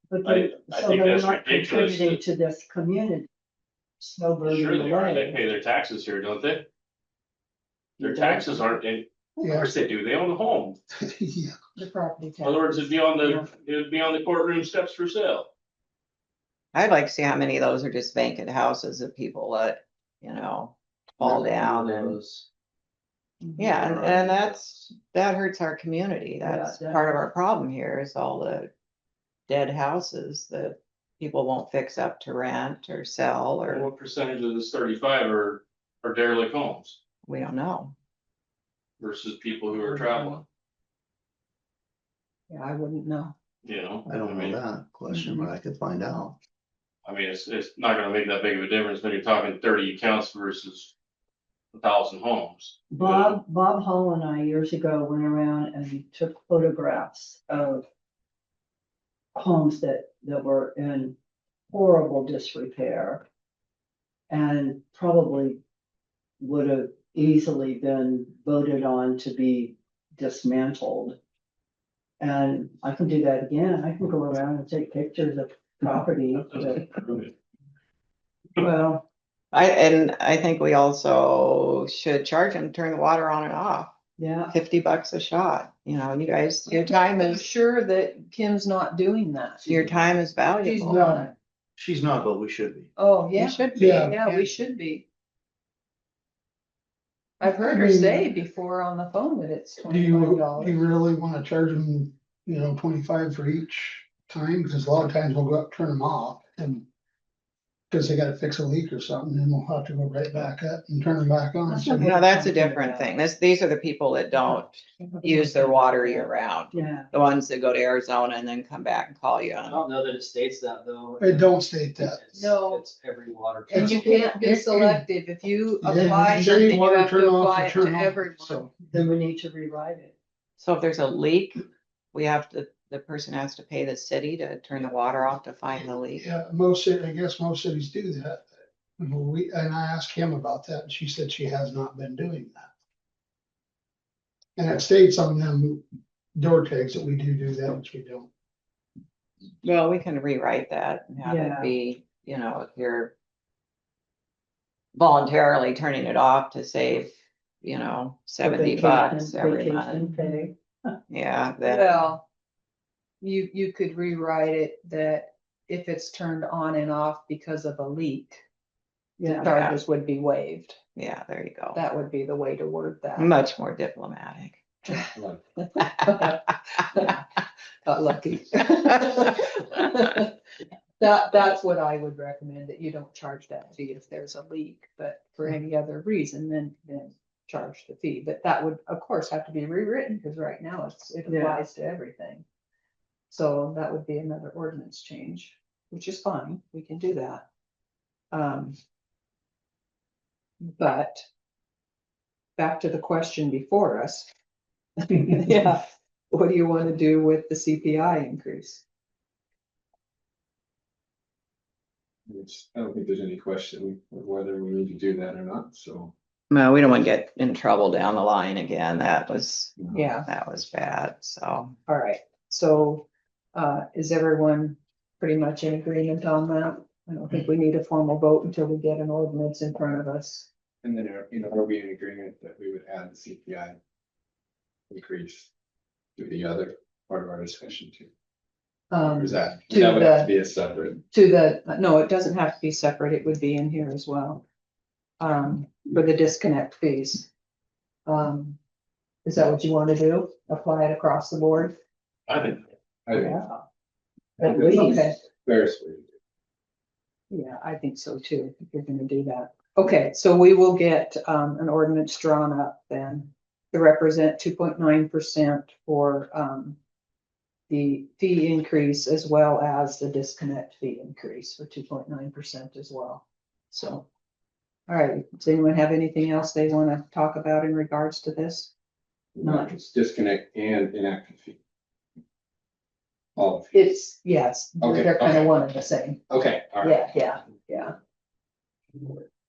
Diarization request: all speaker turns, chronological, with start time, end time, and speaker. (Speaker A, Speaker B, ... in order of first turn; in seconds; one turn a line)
Speaker A: 0.1-3.3
Speaker B: 0.2-2.2
Speaker A: 4.0-5.4
Speaker B: 4.4-6.7
Speaker B: 8.0-10.8
Speaker A: 8.0-8.6
Speaker C: 9.4-9.7
Speaker C: 10.9-11.6
Speaker D: 11.8-13.5
Speaker B: 12.4-15.5
Speaker E: 16.7-22.2
Speaker F: 21.2-22.5
Speaker E: 23.6-28.7
Speaker F: 23.6-24.7
Speaker A: 26.4-27.2
Speaker E: 29.5-33.9
Speaker B: 33.7-37.0
Speaker E: 37.3-37.9
Speaker B: 39.0-40.5
Speaker D: 39.9-40.4
Speaker D: 42.5-43.3
Speaker B: 43.6-44.6
Speaker G: 44.1-46.4
Speaker D: 45.1-45.5
Speaker B: 47.0-50.9
Speaker B: 51.7-53.4
Speaker A: 52.9-57.8
Speaker A: 59.4-61.1
Speaker A: 61.7-63.2
Speaker A: 64.3-65.6
Speaker A: 66.4-71.2
Speaker A: 72.2-76.9
Speaker B: 76.5-77.3
Speaker A: 78.6-79.0
Speaker E: 79.5-83.9
Speaker A: 84.2-84.5
Speaker E: 84.5-87.5
Speaker D: 86.7-89.7
Speaker E: 89.7-91.2
Speaker D: 90.6-91.3
Speaker C: 90.9-91.3
Speaker G: 91.8-92.9
Speaker D: 93.0-95.0
Speaker E: 93.4-94.3
Speaker C: 93.8-94.2
Speaker D: 97.4-100.8
Speaker C: 97.4-98.3
Speaker C: 99.8-106.9
Speaker C: 107.9-112.1
Speaker A: 111.7-113.0
Speaker E: 111.9-119.8
Speaker D: 115.0-115.4
Speaker A: 116.7-117.1
Speaker F: 119.6-124.5
Speaker C: 121.2-122.2
Speaker D: 122.3-122.8
Speaker C: 123.7-125.0
Speaker D: 123.7-128.7
Speaker C: 125.8-128.7
Speaker A: 125.9-126.7
Speaker A: 128.9-130.2
Speaker E: 130.6-136.3
Speaker C: 136.2-142.7
Speaker C: 144.6-145.8
Speaker C: 146.3-148.3
Speaker E: 149.6-153.1
Speaker A: 151.2-151.7
Speaker E: 154.9-157.1
Speaker E: 157.6-160.1
Speaker A: 158.4-160.9
Speaker E: 161.1-162.1
Speaker D: 161.7-162.2
Speaker D: 163.2-168.4
Speaker A: 169.2-169.5
Speaker D: 169.3-170.8
Speaker E: 169.3-169.8
Speaker E: 171.0-171.8
Speaker D: 171.7-173.3
Speaker E: 173.2-174.6
Speaker H: 175.2-175.4
Speaker D: 175.6-177.3
Speaker E: 175.8-176.2
Speaker D: 177.8-180.4
Speaker D: 181.0-192.4
Speaker A: 191.3-191.7
Speaker D: 193.3-197.4
Speaker D: 198.3-198.8
Speaker D: 200.8-201.2
Speaker D: 202.6-204.3
Speaker D: 205.0-208.8
Speaker H: 212.3-216.1
Speaker E: 216.5-221.8
Speaker D: 219.9-220.3
Speaker D: 221.9-230.5
Speaker H: 230.8-233.8
Speaker H: 234.9-235.5
Speaker H: 236.2-238.1
Speaker D: 238.9-240.3
Speaker H: 239.0-241.0
Speaker D: 241.1-244.4
Speaker D: 245.2-247.3
Speaker D: 248.1-248.6
Speaker D: 249.2-251.8
Speaker B: 252.3-252.6
Speaker H: 253.1-253.4
Speaker D: 253.1-253.6
Speaker D: 254.4-255.2
Speaker H: 254.4-256.1
Speaker D: 257.3-266.8
Speaker D: 267.7-274.1
Speaker D: 274.9-278.7
Speaker H: 279.4-281.6
Speaker D: 279.4-279.7
Speaker H: 283.4-283.9
Speaker D: 283.7-286.2
Speaker H: 284.8-285.5
Speaker H: 286.3-287.0
Speaker D: 286.8-287.9